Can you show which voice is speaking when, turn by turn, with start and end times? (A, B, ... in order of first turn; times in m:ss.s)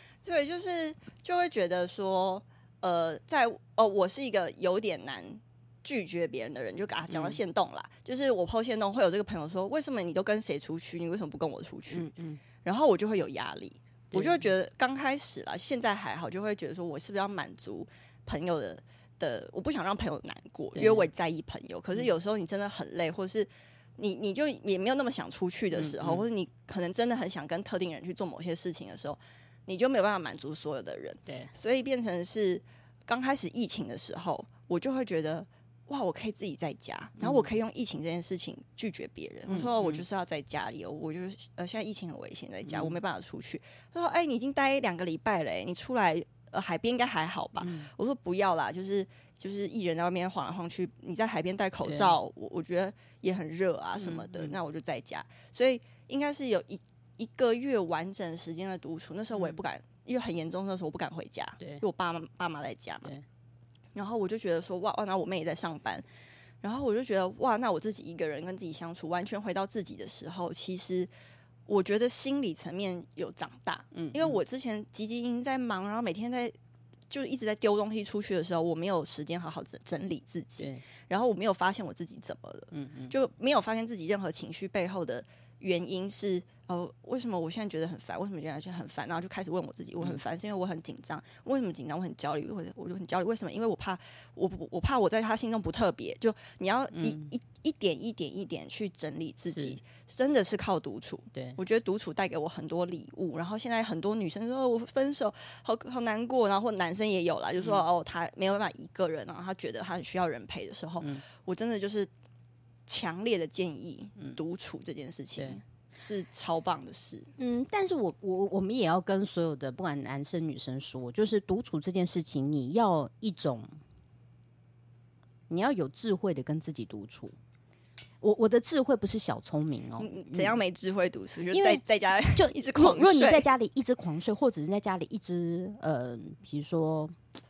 0:00.2-0:12.0 A
0:07.1-0:07.4 B
0:11.9-0:12.4 B
0:12.6-1:03.1 A
0:14.1-0:14.5 B
0:20.7-0:21.1 B
0:25.7-0:26.2 B
0:37.2-0:37.6 B
0:39.5-0:40.0 B
0:42.6-0:43.0 B
0:47.6-0:47.9 B
0:51.8-0:52.1 B
0:54.0-0:54.6 B
0:59.3-0:59.6 B
1:03.9-1:06.0 A
1:06.6-1:11.1 A
1:11.7-1:16.5 A
1:13.9-1:14.4 B
1:17.1-1:52.1 A
1:20.6-1:20.8 B
1:22.7-1:23.1 B
1:36.9-1:37.3 B
1:39.5-1:39.8 B
1:41.3-1:41.6 B
1:52.9-1:57.3 A
1:57.4-2:03.8 B
2:05.5-2:07.3 B
2:08.2-2:10.6 B
2:10.0-2:13.5 A
2:11.5-2:11.8 B
2:12.4-2:17.2 B